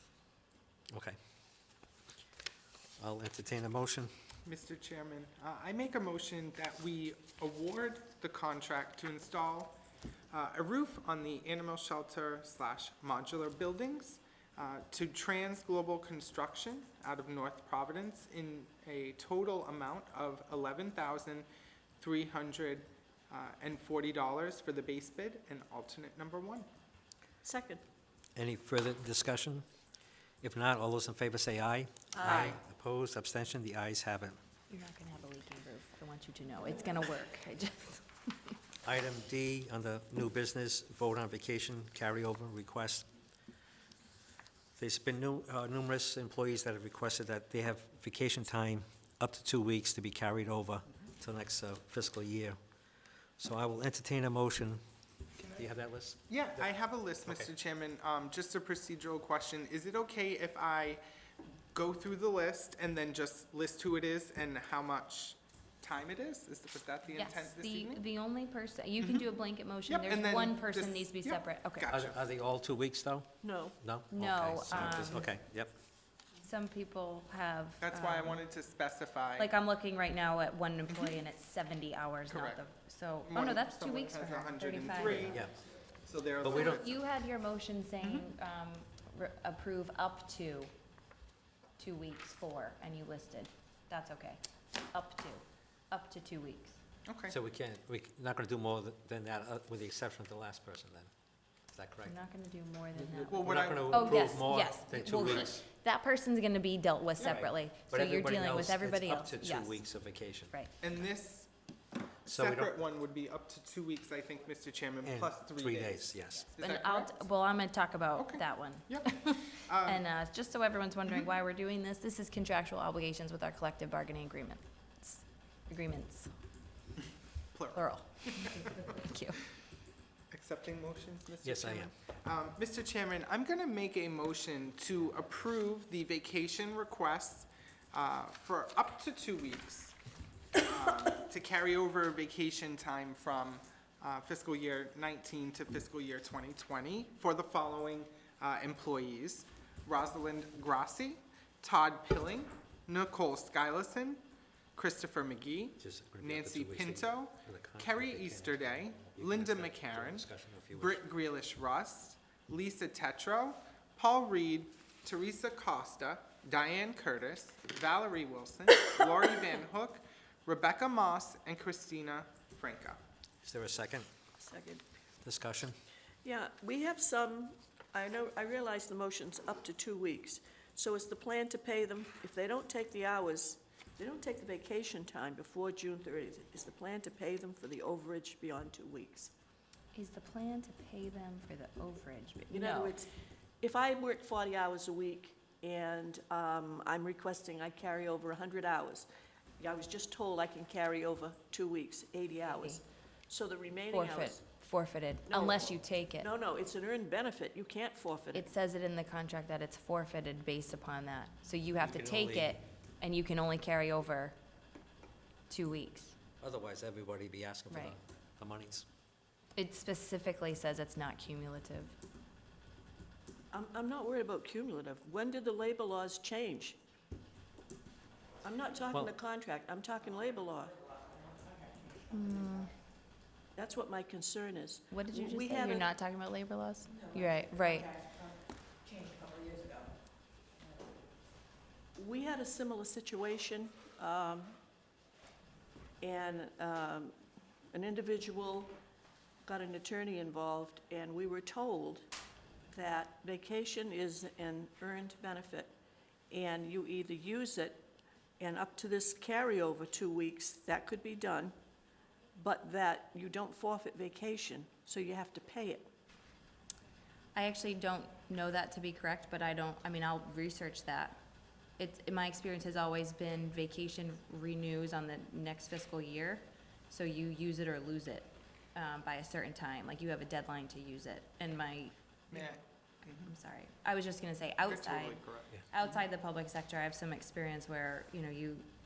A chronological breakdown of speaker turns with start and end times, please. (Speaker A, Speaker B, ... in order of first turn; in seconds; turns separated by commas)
Speaker A: 3.0-4.1, Speaker B: 4.5-9.8, Speaker B: 10.3-21.5, Speaker B: 22.0-26.7, Speaker C: 27.4-27.8, Speaker A: 28.4-29.6, Speaker A: 30.4-34.4, Speaker C: 32.1-32.6, Speaker D: 34.7-38.5, Speaker A: 38.8-43.1, Speaker A: 44.8-52.6, Speaker A: 53.4-54.8, Speaker B: 55.4-55.7, Speaker A: 55.6-56.6, Speaker B: 56.3-61.0, Speaker B: 61.7-68.0, Speaker D: 67.2-71.9, Speaker B: 69.0-69.2, Speaker B: 69.9-72.2, Speaker A: 71.9-75.7, Speaker C: 73.4-73.8, Speaker D: 74.1-75.3, Speaker D: 76.4-78.4, Speaker B: 77.8-79.5, Speaker D: 79.4-85.3, Speaker B: 82.3-82.7, Speaker B: 83.2-85.5, Speaker A: 85.2-85.5, Speaker B: 86.0-86.9, Speaker A: 86.4-86.8, Speaker D: 86.5-90.7, Speaker D: 91.8-96.8, Speaker B: 97.1-97.3, Speaker A: 97.3-101.1, Speaker A: 101.7-102.2, Speaker D: 102.1-109.8, Speaker A: 103.0-105.6, Speaker B: 103.3-104.4, Speaker A: 107.2-110.5, Speaker B: 110.8-111.5, Speaker B: 112.2-117.2, Speaker A: 112.3-112.8, Speaker A: 115.0-116.5, Speaker D: 116.6-126.3, Speaker B: 118.2-120.0, Speaker B: 127.5-128.5, Speaker D: 127.7-129.4, Speaker B: 130.3-140.0, Speaker A: 131.4-131.9, Speaker B: 140.7-154.2, Speaker B: 154.8-173.0, Speaker A: 155.8-161.0, Speaker A: 173.4-174.1, Speaker C: 174.4-174.8, Speaker A: 175.2-175.8, Speaker C: 176.2-189.3, Speaker D: 189.9-192.9, Speaker C: 192.5-193.1, Speaker C: 193.6-199.1, Speaker C: 199.6-204.4, Speaker D: 202.5-202.8, Speaker D: 203.9-206.3, Speaker C: 205.3-208.5, Speaker D: 208.3-214.4, Speaker A: 211.8-212.6, Speaker D: 215.5-216.2, Speaker A: 216.4-218.9, Speaker D: 217.7-217.9, Speaker D: 219.6-221.9, Speaker C: 223.5-226.8, Speaker C: 228.4-230.8, Speaker D: 232.1-232.7, Speaker C: 233.6-235.9, Speaker D: 234.9-237.9, Speaker C: 242.0-244.6, Speaker C: 246.0-247.2, Speaker C: 247.7-248.8, Speaker C: 249.4-252.1, Speaker C: 252.7-255.7, Speaker C: 256.3-257.8, Speaker C: 258.4-261.6, Speaker C: 262.4-265.9, Speaker D: 267.4-271.2, Speaker D: 271.8-282.6, Speaker B: 282.3-283.3, Speaker D: 283.2-288.7, Speaker B: 284.7-285.5